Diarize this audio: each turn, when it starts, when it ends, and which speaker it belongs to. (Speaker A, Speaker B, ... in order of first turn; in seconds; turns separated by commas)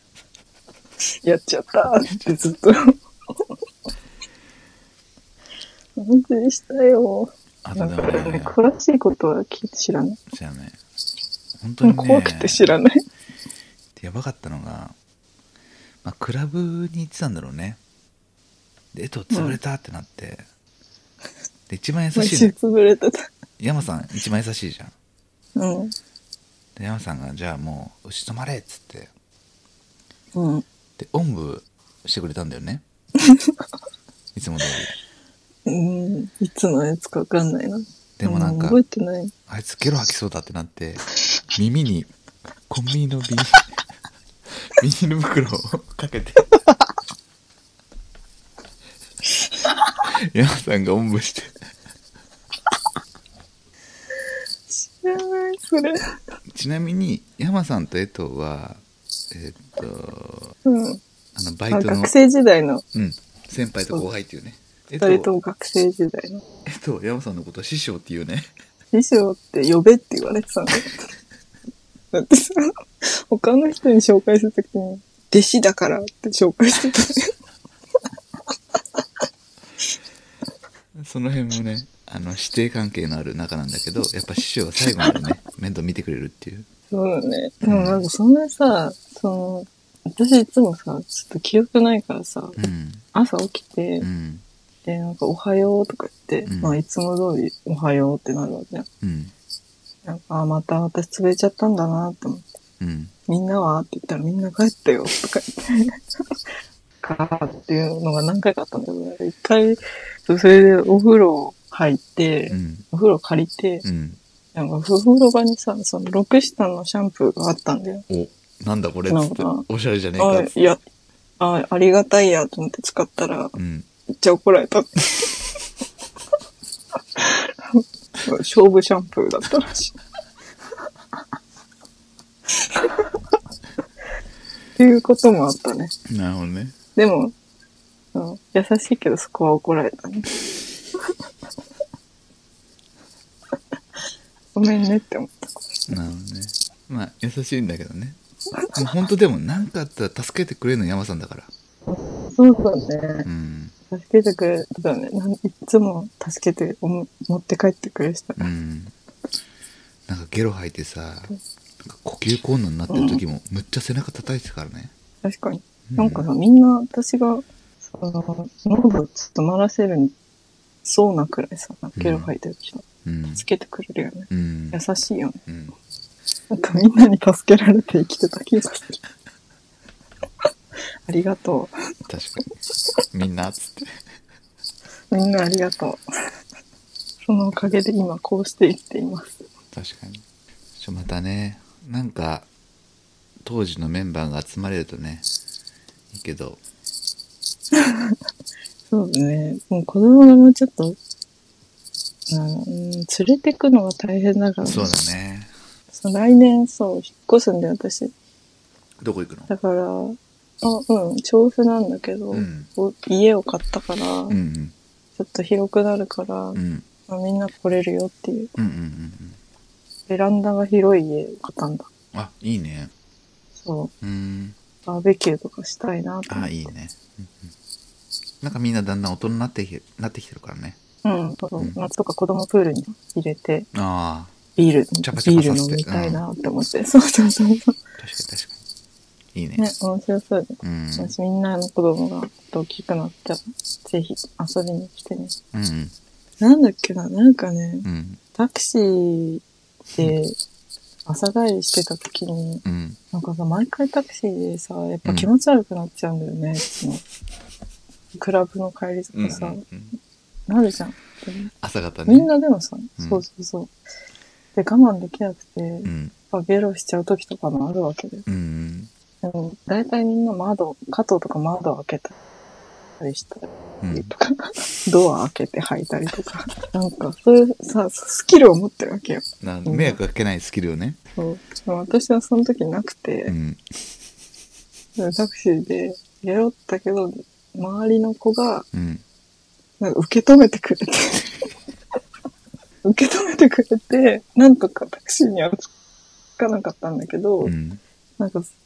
Speaker A: 1.2-2.8, Speaker A: 6.0-10.2, Speaker B: 7.6-8.5, Speaker B: 10.3-10.8, Speaker B: 11.6-12.7, Speaker A: 11.8-13.0, Speaker B: 14.0-14.9, Speaker B: 16.0-17.8, Speaker B: 18.9-20.4, Speaker A: 19.3-19.6, Speaker B: 21.7-22.5, Speaker A: 22.1-23.3, Speaker B: 23.6-24.9, Speaker A: 25.6-25.9, Speaker B: 26.8-29.1, Speaker A: 30.3-30.6, Speaker B: 31.0-32.8, Speaker B: 34.3-34.9, Speaker A: 35.6-39.3, Speaker B: 38.2-38.8, Speaker B: 39.5-42.1, Speaker B: 42.7-43.6, Speaker B: 44.7-46.7, Speaker B: 50.1-51.6, Speaker A: 54.7-56.0, Speaker B: 56.5-60.5, Speaker A: 60.6-61.0, Speaker B: 61.4-62.1, Speaker A: 61.7-62.8, Speaker B: 62.9-65.3, Speaker A: 65.0-66.4, Speaker B: 66.7-68.5, Speaker A: 68.9-70.9, Speaker A: 72.1-77.3, Speaker B: 81.0-86.7, Speaker A: 86.9-92.6, Speaker B: 87.6-88.0, Speaker B: 92.6-93.0, Speaker A: 93.1-94.1, Speaker B: 94.0-94.4, Speaker A: 94.8-98.9, Speaker B: 96.5-96.8, Speaker B: 99.0-99.3, Speaker A: 100.0-102.5, Speaker B: 102.8-103.1, Speaker A: 103.3-106.0, Speaker A: 107.0-113.8, Speaker B: 112.5-112.8, Speaker B: 113.8-114.2, Speaker A: 114.5-118.0, Speaker B: 118.1-120.6, Speaker A: 119.1-119.7, Speaker A: 120.2-120.8, Speaker A: 121.4-123.5, Speaker B: 123.5-123.9, Speaker A: 124.1-125.5, Speaker A: 127.2-129.9, Speaker A: 132.7-133.0, Speaker A: 134.8-135.9, Speaker B: 136.1-136.7, Speaker A: 136.9-137.3, Speaker A: 138.1-140.4, Speaker A: 144.5-145.8, Speaker B: 145.9-148.2, Speaker B: 148.7-151.5, Speaker A: 151.9-153.3, Speaker B: 153.2-153.7, Speaker A: 153.9-158.5, Speaker B: 158.4-158.9, Speaker B: 160.1-164.9, Speaker A: 162.9-163.2, Speaker A: 165.2-170.1, Speaker B: 165.9-166.2, Speaker A: 170.8-175.4, Speaker B: 172.0-172.3, Speaker B: 173.0-173.4, Speaker B: 174.3-174.8, Speaker B: 175.5-175.7, Speaker A: 176.5-179.0, Speaker A: 181.1-181.7, Speaker B: 182.1-182.5, Speaker B: 183.1-183.9, Speaker A: 185.1-186.0, Speaker A: 187.2-189.4, Speaker B: 189.7-190.2, Speaker B: 190.8-192.5, Speaker B: 193.4-195.3, Speaker B: 196.1-196.6, Speaker A: 197.8-198.2, Speaker A: 198.9-201.0, Speaker A: 202.3-204.9, Speaker B: 204.6-205.5, Speaker A: 205.9-208.1, Speaker B: 209.0-209.5, Speaker A: 209.5-214.4, Speaker B: 212.3-212.7, Speaker B: 214.3-214.7, Speaker A: 215.2-218.5, Speaker B: 216.5-216.8, Speaker B: 218.6-219.4, Speaker A: 220.1-221.9, Speaker B: 222.1-222.9, Speaker A: 223.6-223.9, Speaker B: 224.0-224.6, Speaker A: 224.8-226.7, Speaker B: 226.3-227.5, Speaker B: 228.4-230.8, Speaker A: 231.0-233.7, Speaker B: 233.7-234.3, Speaker A: 234.6-237.8, Speaker B: 235.0-236.2, Speaker B: 238.0-238.6, Speaker B: 239.3-239.6, Speaker A: 239.6-245.3, Speaker B: 240.6-241.1, Speaker B: 245.5-245.9, Speaker A: 246.4-250.3, Speaker B: 247.8-248.2, Speaker A: 251.1-257.0, Speaker B: 252.6-253.0, Speaker A: 258.1-259.6, Speaker B: 259.1-259.9, Speaker A: 260.5-261.5, Speaker B: 261.6-262.3, Speaker A: 262.1-263.7, Speaker B: 263.0-263.2, Speaker A: 264.5-268.2, Speaker B: 265.8-266.1, Speaker B: 268.3-268.9, Speaker A: 269.2-272.2, Speaker A: 273.0-280.0, Speaker B: 273.8-274.1, Speaker B: 279.4-281.0, Speaker A: 281.2-283.3, Speaker B: 283.2-283.6, Speaker A: 285.0-288.7, Speaker B: 288.7-289.0, Speaker A: 289.8-291.4, Speaker A: 292.8-295.7, Speaker A: 296.4-297.5, Speaker B: 297.4-297.8, Speaker A: 298.2-298.5